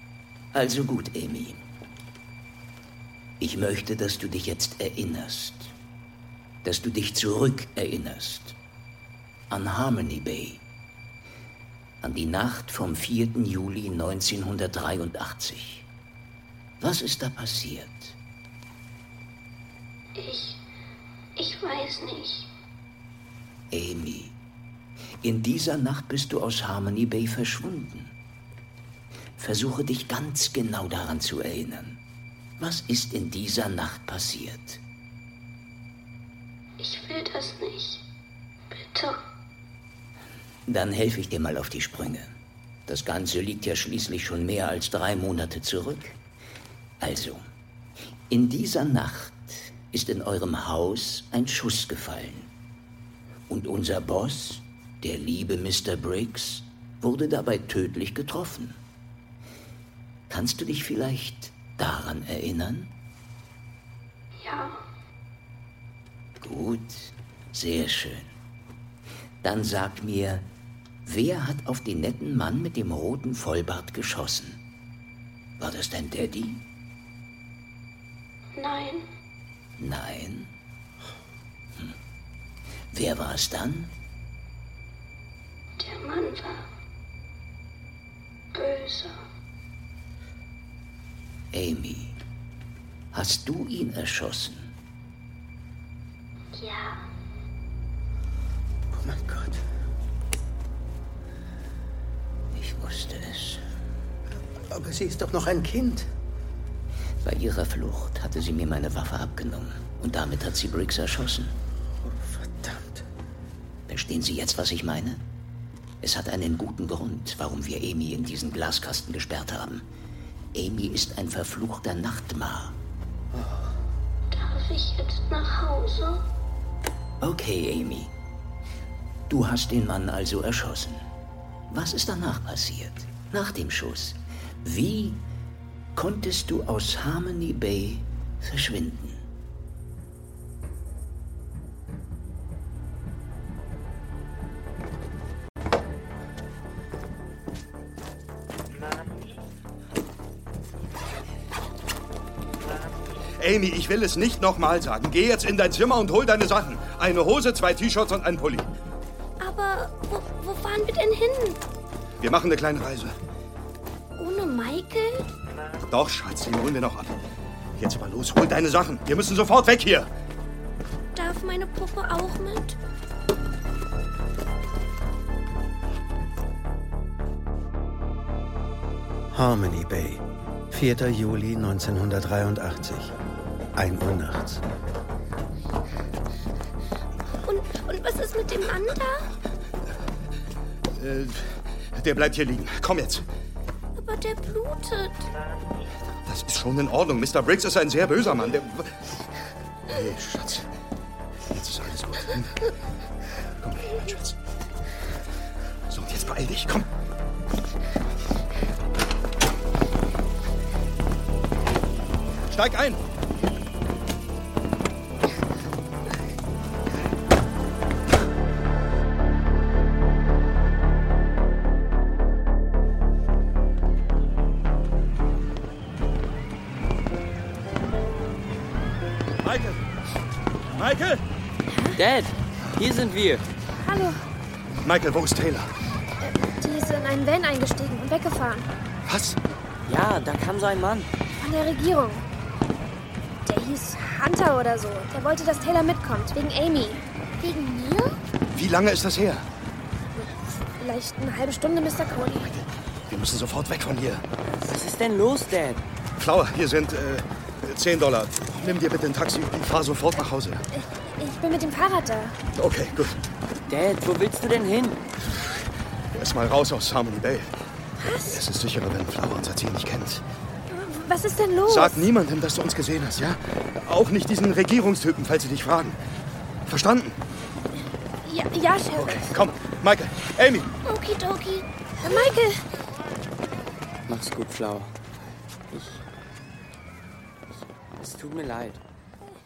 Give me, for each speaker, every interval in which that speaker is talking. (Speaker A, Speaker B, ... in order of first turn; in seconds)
Speaker A: 0.5-1.6, 3.4-5.7, 6.6-8.6, 9.5-10.6, 12.0-15.9, 16.8-18.2, 23.7-24.4, 25.2-28.1, 29.4-32.0, 32.6-34.8, 40.7-42.3, 42.9-46.2, 47.0-47.4, 48.3-52.5, 53.5-58.8, 60.3-63.0, 66.4-68.3, 69.4-70.5, 71.1-74.6, 75.6-76.7, 79.8-80.5, 82.9-84.0, 91.5-92.2, 93.1-94.7, 102.5-103.6, 107.2-111.5, 113.9-115.2, 116.0-119.9, 120.5-122.8, 127.2-128.1, 129.3-131.0, 131.7-135.3, 135.9-139.2
Speaker B: 20.2-20.6, 21.4-22.4, 36.8-38.0, 38.8-39.2, 64.4-64.8, 78.6-79.0, 85.8-86.7, 88.5-89.2, 96.5-97.0, 124.3-126.2, 159.4-161.6, 164.2-165.3, 171.2-172.8, 187.4-189.3, 194.0-195.3, 280.9-281.7
Speaker C: 98.9-99.6, 104.7-106.1, 112.0-113.1, 179.3-183.2, 183.8-184.6
Speaker D: 153.4-158.7, 162.2-163.2, 165.9-167.2, 167.8-170.1, 190.9-191.4, 191.9-193.2, 196.2-198.9, 199.9-200.7, 201.5-202.7, 203.6-204.4, 205.9-206.9, 212.5-213.0, 229.4-229.8, 230.7-231.2, 234.8-235.7, 239.1-239.4, 248.5-249.5, 252.4-254.2, 256.2-260.6, 262.5-263.2, 266.1-267.5, 268.2-270.2, 271.6-276.0, 276.7-277.2, 278.9-280.7
Speaker E: 231.7-232.0, 233.7-234.2, 236.2-238.7, 241.4-242.2, 243.4-248.2, 250.2-252.5, 260.8-262.4, 268.0-268.4, 270.7-272.1, 278.2-279.3, 282.0-282.6
Speaker F: 232.0-233.5, 239.9-241.1, 254.7-255.8, 263.7-265.0, 284.1-284.9, 285.7-286.0, 288.0-288.8